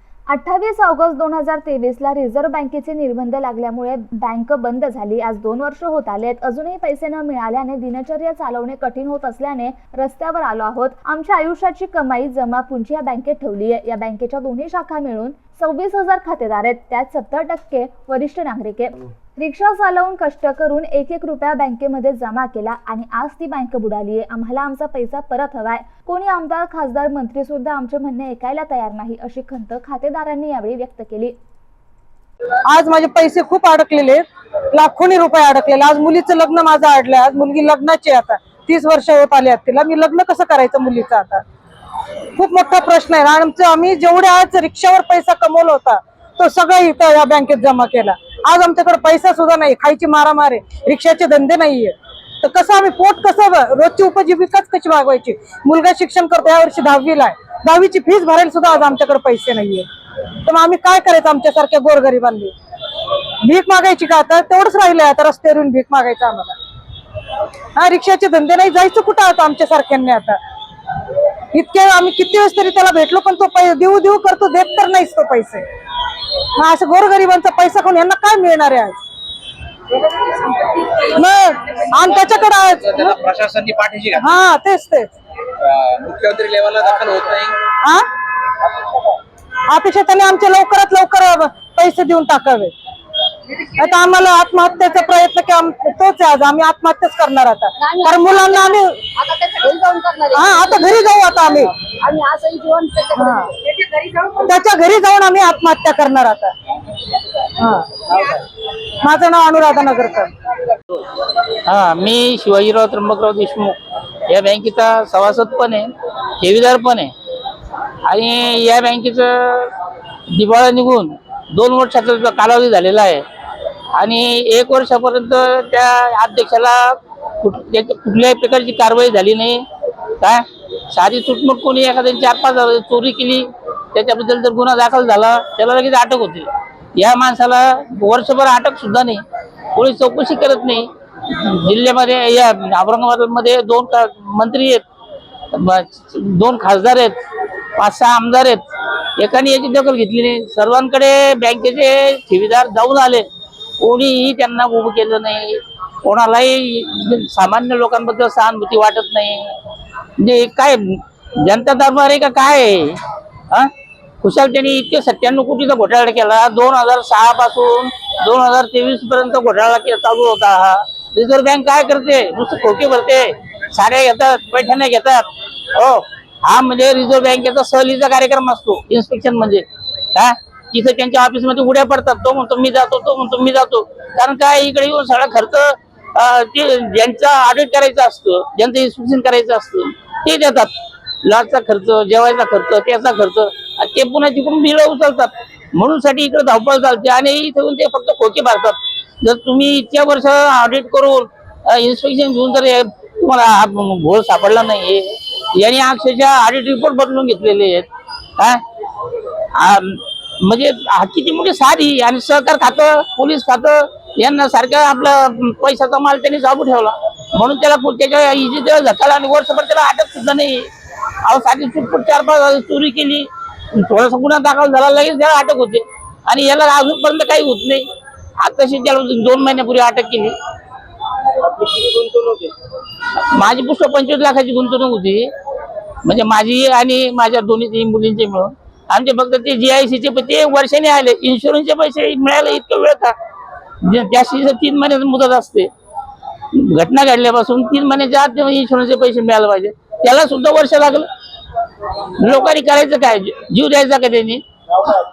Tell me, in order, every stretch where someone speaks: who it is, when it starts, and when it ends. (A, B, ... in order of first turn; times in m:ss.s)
0:00.3-0:31.4 A
0:32.7-0:41.4 B
0:42.4-0:59.8 B
1:00.4-1:02.5 B
1:03.4-1:06.6 B
1:07.7-1:10.4 B
1:11.5-1:15.7 B
1:16.6-1:19.0 B
1:21.1-1:23.1 B
1:23.0-1:24.2 C
1:24.2-1:25.1 B
1:25.9-1:27.6 C
1:29.7-1:32.7 B
1:33.7-1:39.1 B
1:37.8-1:40.7 D
1:40.3-1:41.7 B
1:41.9-1:43.5 D
1:43.1-1:43.5 B
1:44.3-1:46.5 B
1:47.6-1:48.4 B
1:49.0-1:50.3 B
1:51.7-1:57.1 E
1:58.0-1:59.7 E
2:00.3-2:03.2 E
2:04.0-2:09.7 E
2:10.2-2:19.2 E
2:19.8-2:24.8 E
2:25.5-2:27.2 E
2:27.8-2:28.6 E
2:29.2-2:33.2 E
2:33.8-2:39.6 E
2:40.2-2:43.0 E
2:44.2-2:59.6 E
3:00.2-3:10.7 E
3:11.2-3:27.9 E
3:29.6-3:40.7 E
3:41.2-3:47.9 E
3:48.4-3:50.3 E
3:53.2-3:55.3 E
3:56.0-4:03.2 E
4:03.8-4:05.7 E
4:06.5-4:11.1 E
4:12.2-4:15.0 E